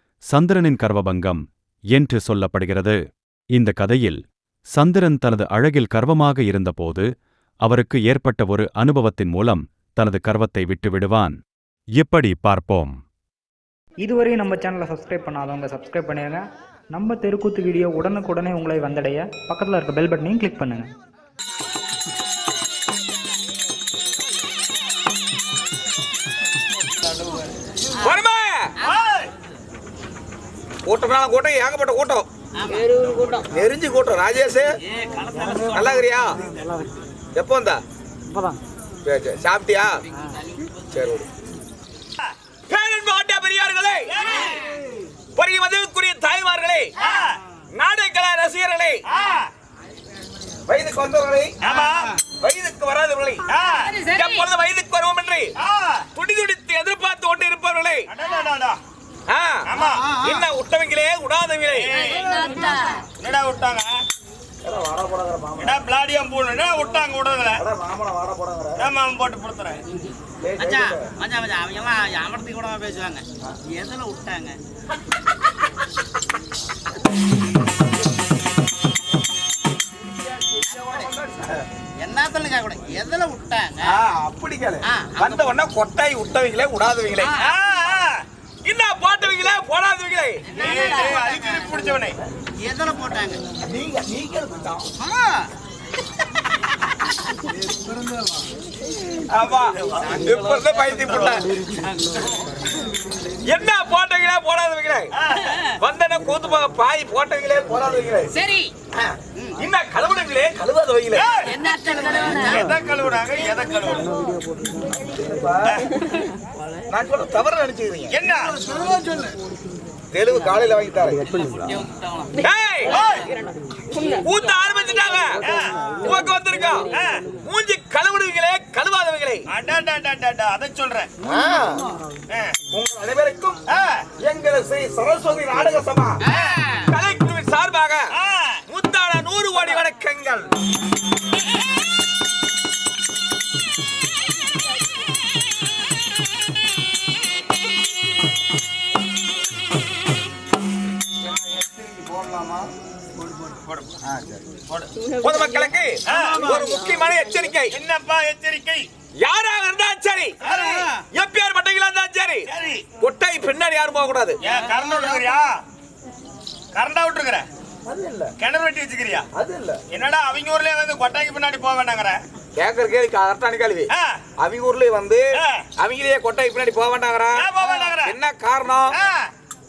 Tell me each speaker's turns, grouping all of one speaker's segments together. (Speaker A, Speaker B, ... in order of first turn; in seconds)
Speaker A: 0.3-1.4, 1.9-3.0, 3.5-4.2, 4.7-7.1, 7.7-11.4, 12.0-13.0
Speaker B: 14.0-20.9
Speaker C: 27.9-28.7, 30.9-32.3, 33.4-34.7, 35.4-36.4, 37.4-37.8, 39.0-40.0, 40.9-41.3, 42.7-44.3, 45.4-46.9, 47.7-49.0, 50.7-51.5, 52.4-53.4, 54.1-55.5, 56.1-58.1, 59.3-59.6, 60.2-61.9, 64.6-65.8, 67.6-68.9, 70.4-71.1, 80.1-81.6, 83.8-87.3, 88.7-90.9, 93.7-94.9, 99.3-101.5, 103.5-105.1, 105.8-108.3, 109.0-111.3, 114.9-115.8, 116.9-118.2, 120.1-121.2, 122.4-123.0, 124.0-126.9, 127.4-129.4, 131.2-131.8, 132.7-133.6, 134.2-136.2, 136.9-138.1, 138.7-140.5, 151.4-152.6, 154.1-154.5, 155.2-157.7, 159.2-162.5, 163.0-164.4, 167.9-168.3, 169.3-169.8, 172.6-175.2, 175.8-178.9
Speaker D: 28.9-29.3, 44.1-44.7, 47.0-47.4, 49.1-49.5, 51.6-52.2, 53.5-54.1, 55.6-56.1, 58.1-58.8, 59.7-60.1, 61.8-64.0, 65.6-67.6, 68.8-69.8, 87.4-88.2, 90.5-92.2, 99.5-101.5, 105.2-105.5, 111.1-114.1, 118.1-118.6, 122.9-123.3, 125.4-125.7, 126.9-127.2, 129.5-131.1, 133.7-134.1, 136.3-136.7, 138.1-138.6, 153.7-153.9, 156.1-156.7, 157.7-158.9, 160.4-160.9, 162.5-162.9, 164.4-165.6, 166.8-167.5, 168.4-169.3, 169.9-172.2, 173.9-174.2, 175.4-175.7, 177.4-178.2, 178.9-179.3
Speaker E: 32.6-33.4, 35.0-35.9, 54.0-54.3, 59.8-60.4, 62.0-63.0, 70.6-74.6, 80.7-81.1, 82.0-83.9, 84.9-85.4, 87.2-87.5, 90.5-91.7, 92.6-93.4, 95.0-95.5, 108.4-108.7, 111.5-112.7, 121.5-122.3